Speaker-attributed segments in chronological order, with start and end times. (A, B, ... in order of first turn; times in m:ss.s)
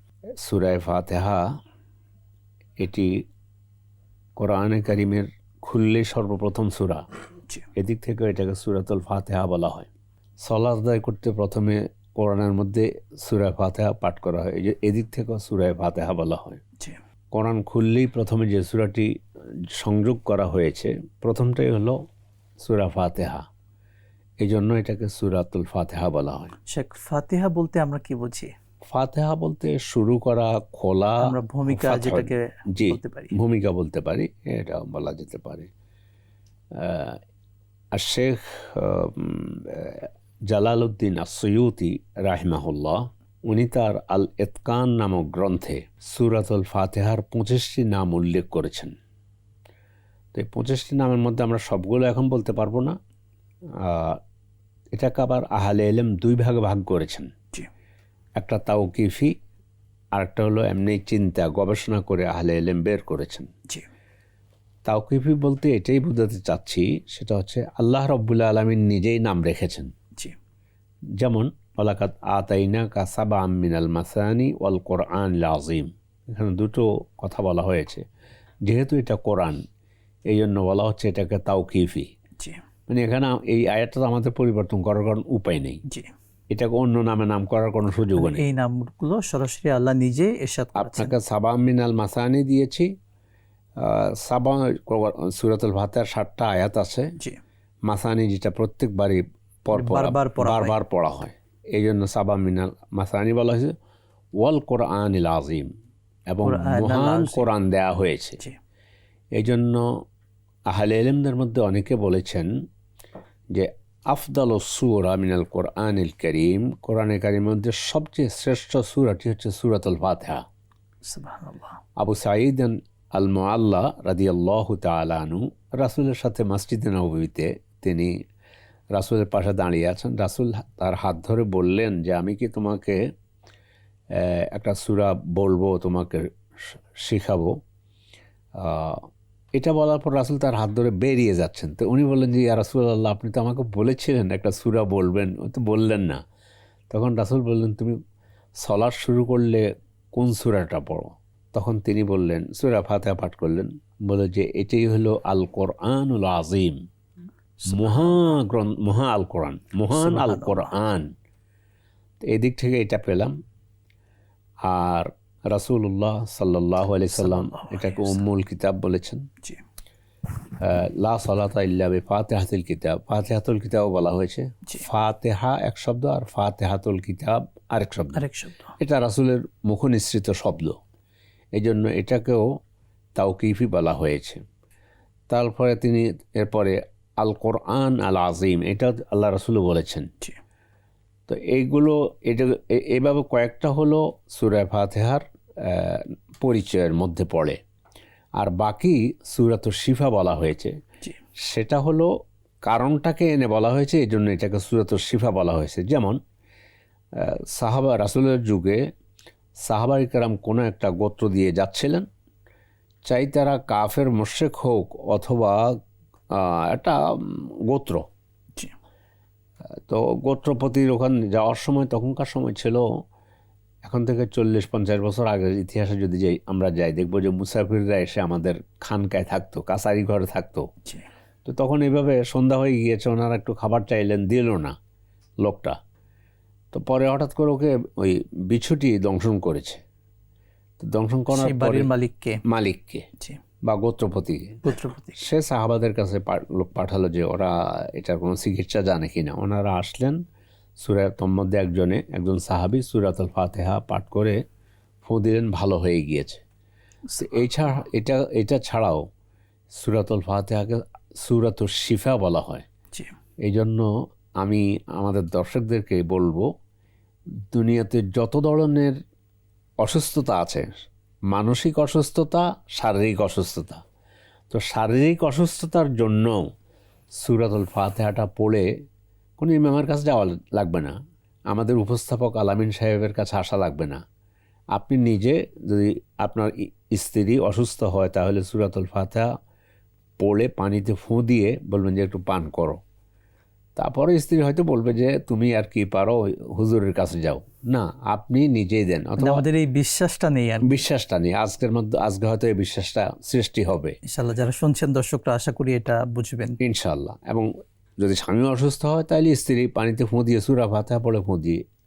0:00.4-0:01.4 A
0:02.8-0:03.1 A
0:04.4-0:07.0 A
0:07.7-0:09.9 A
0:10.4-0:16.6 A
0:17.3-0:19.1 A
0:19.8-0:22.0 A
0:22.6-0:23.4 A
0:24.4-0:26.5 A
0:26.7-0:28.5 B
0:28.9-0:35.7 A
0:31.2-0:33.3 B
0:36.8-0:37.2 A
0:37.9-0:48.9 A
0:50.3-0:52.9 A
0:53.8-0:54.2 A
0:54.9-0:57.3 A
0:58.4-0:59.3 A
1:00.1-1:03.5 A
1:04.8-1:09.9 A
1:11.2-1:18.0 A
1:18.6-1:19.6 A
1:20.3-1:22.1 A
1:22.9-1:25.8 A
1:25.8-1:26.1 B
1:26.5-1:28.4 A
1:28.2-1:31.1 B
1:30.7-1:32.9 A
1:33.8-1:37.1 A
1:37.9-1:43.7 A
1:39.7-1:40.8 B
1:44.4-1:45.7 A
1:46.3-1:48.4 A
1:46.4-1:47.5 B
1:49.4-1:49.8 A
1:50.7-1:52.5 A
1:53.5-2:00.4 A
2:01.0-2:01.8 B
2:02.0-2:08.1 A
2:08.9-2:13.0 A
2:14.1-2:16.3 A
2:17.0-2:17.6 A
2:18.6-2:19.0 A
2:19.6-2:26.2 A
2:26.9-2:28.0 A
2:28.6-2:36.8 A
2:37.6-2:38.4 B
2:37.7-2:41.1 A
2:39.9-2:40.7 B
2:42.3-2:43.3 A
2:44.6-2:49.2 A
2:47.1-2:48.2 B
2:50.6-2:58.2 A
2:58.1-2:58.7 B
2:58.8-3:00.8 A
3:01.6-3:02.5 A
3:03.2-3:04.4 A
3:05.3-3:10.1 A
3:11.3-3:17.6 A
3:18.4-3:20.7 A
3:21.5-3:22.1 A
3:22.6-3:26.2 A
3:27.2-3:28.8 A
3:29.6-3:32.0 A
3:33.0-3:35.6 A
3:36.3-3:38.0 A
3:39.9-3:42.8 A
3:43.8-3:50.6 A
3:51.4-3:54.7 A
3:55.4-3:55.7 A
3:56.7-3:59.8 A
4:00.8-4:01.9 A
4:01.3-4:02.4 B
4:02.4-4:03.0 A
4:03.6-4:04.6 A
4:04.6-4:05.2 B
4:05.2-4:10.2 A
4:10.8-4:14.4 A
4:15.0-4:16.4 A
4:17.1-4:17.5 B
4:17.2-4:19.0 A
4:19.8-4:22.6 A
4:23.4-4:23.9 A
4:24.4-4:26.4 A
4:27.5-4:28.9 A
4:29.8-4:30.6 A
4:31.3-4:33.8 A
4:34.5-4:36.4 A
4:37.2-4:38.7 A
4:39.4-4:40.9 A
4:41.5-4:44.0 A
4:44.7-4:49.3 A
4:50.2-4:52.8 A
4:53.8-4:59.4 A
4:59.2-5:00.8 B
5:00.6-5:04.0 A
5:04.1-5:06.6 B
5:06.6-5:07.5 A
5:08.0-5:11.6 A